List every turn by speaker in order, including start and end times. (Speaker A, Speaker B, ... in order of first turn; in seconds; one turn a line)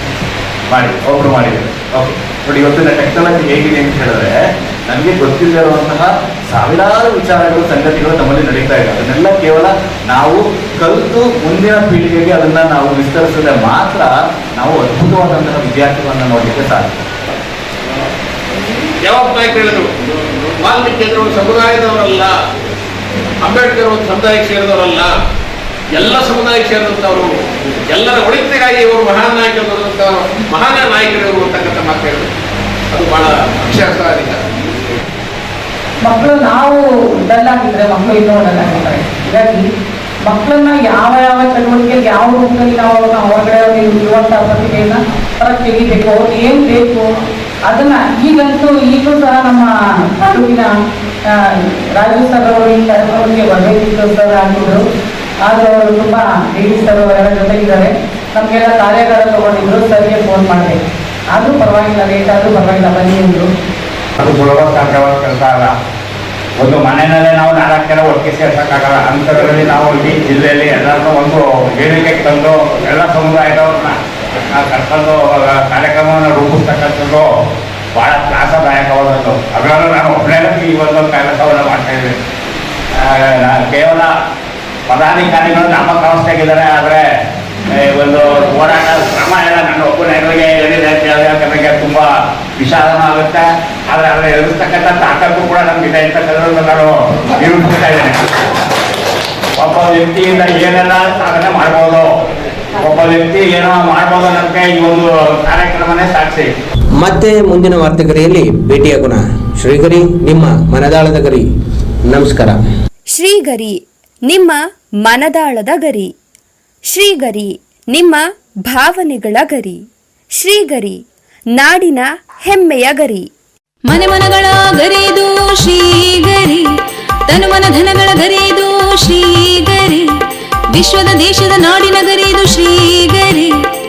Speaker A: 0.7-17.0
Speaker B: 19.0-19.9
Speaker B: 20.6-22.4
Speaker B: 23.4-25.1
Speaker B: 25.9-27.3
Speaker B: 27.9-32.3
Speaker B: 32.9-34.5
Speaker C: 36.0-39.6
Speaker C: 40.3-47.1
Speaker C: 47.7-50.7
Speaker C: 52.0-54.8
Speaker C: 55.5-60.8
Speaker C: 61.3-63.5
Speaker D: 64.2-65.7
Speaker D: 66.6-74.0
Speaker D: 74.5-77.3
Speaker D: 78.0-82.2
Speaker D: 83.0-84.1
Speaker D: 84.9-87.0
Speaker D: 87.7-98.2
Speaker D: 99.6-102.1
Speaker D: 102.8-106.5
Speaker E: 107.0-111.5
Speaker E: 112.1-112.6
Speaker F: 113.1-116.1
Speaker F: 116.9-119.8
Speaker F: 120.4-121.0
Speaker F: 121.5-123.3
Speaker G: 123.8-126.7
Speaker G: 127.3-130.1
Speaker G: 130.7-133.6